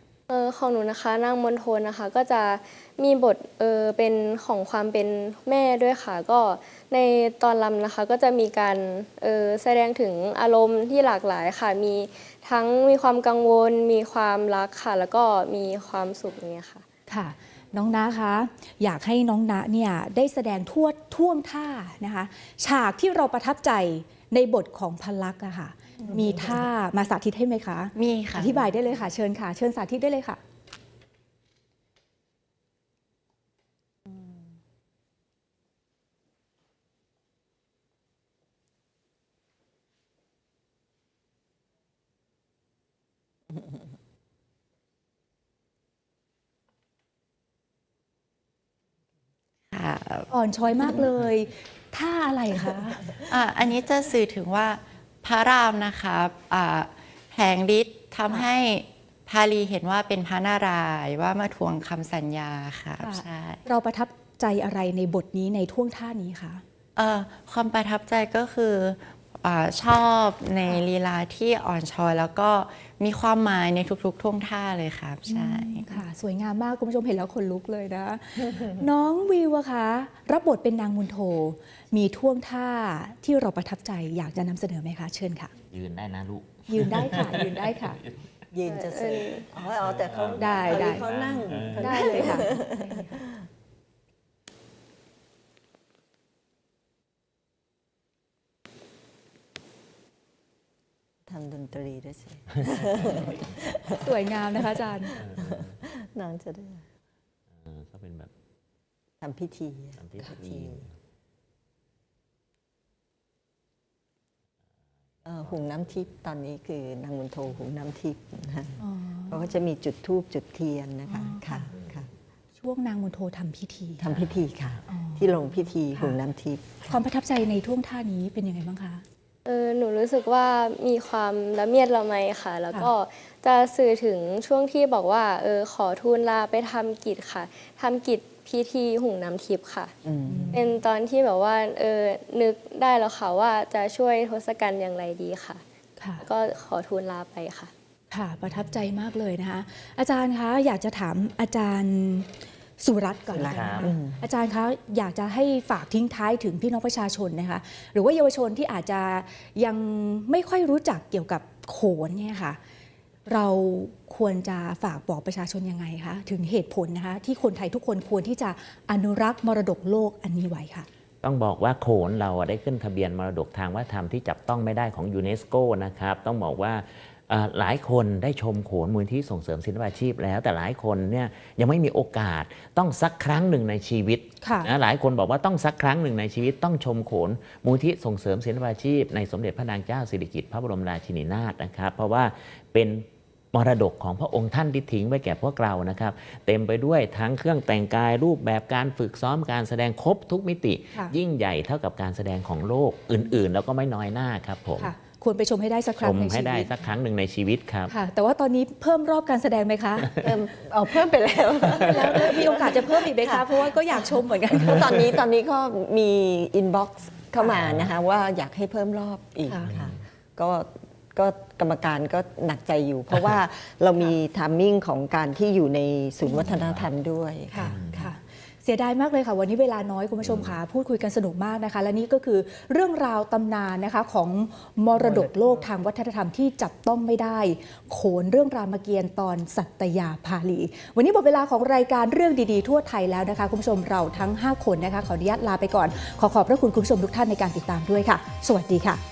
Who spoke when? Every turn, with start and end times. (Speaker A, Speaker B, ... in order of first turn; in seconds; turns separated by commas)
Speaker A: 0.3-16.8, Speaker B: 17.1-30.4, Speaker C: 27.9-28.7, Speaker C: 49.7-50.3, Speaker B: 50.3-53.3, Speaker C: 53.3-63.6, Speaker B: 63.0-66.6, Speaker C: 67.0-76.0, Speaker B: 75.3-85.5, Speaker D: 85.7-87.6, Speaker B: 86.7-88.0, Speaker E: 88.5-93.3, Speaker A: 88.7-89.5, Speaker D: 89.8-92.1, Speaker B: 90.4-91.0, Speaker B: 91.8-93.2, Speaker E: 101.3-104.0, Speaker D: 102.7-103.2, Speaker B: 104.0-105.2, Speaker D: 105.2-105.8, Speaker E: 105.2-106.8, Speaker D: 107.6-108.3, Speaker E: 109.2-110.8, Speaker D: 110.0-110.9, Speaker E: 115.3-122.1, Speaker B: 118.8-119.4, Speaker B: 121.1-121.7, Speaker B: 122.6-124.1, Speaker E: 124.0-127.0, Speaker B: 124.9-125.2, Speaker B: 126.9-129.0, Speaker A: 129.5-139.9, Speaker E: 140.0-140.6, Speaker B: 140.3-140.7, Speaker A: 140.5-145.6, Speaker B: 146.0-146.2, Speaker A: 146.2-147.7, Speaker B: 148.1-162.6, Speaker E: 153.3-154.2, Speaker B: 163.3-170.9, Speaker D: 171.2-204.9, Speaker B: 184.4-184.7, Speaker B: 204.8-206.7, Speaker D: 206.0-207.9, Speaker B: 207.9-210.1, Speaker E: 210.2-213.7, Speaker B: 211.8-214.9, Speaker E: 214.5-228.1, Speaker D: 217.6-217.9, Speaker D: 219.7-220.0, Speaker D: 226.5-226.8, Speaker B: 227.5-249.0, Speaker D: 227.6-228.1, Speaker E: 235.0-235.7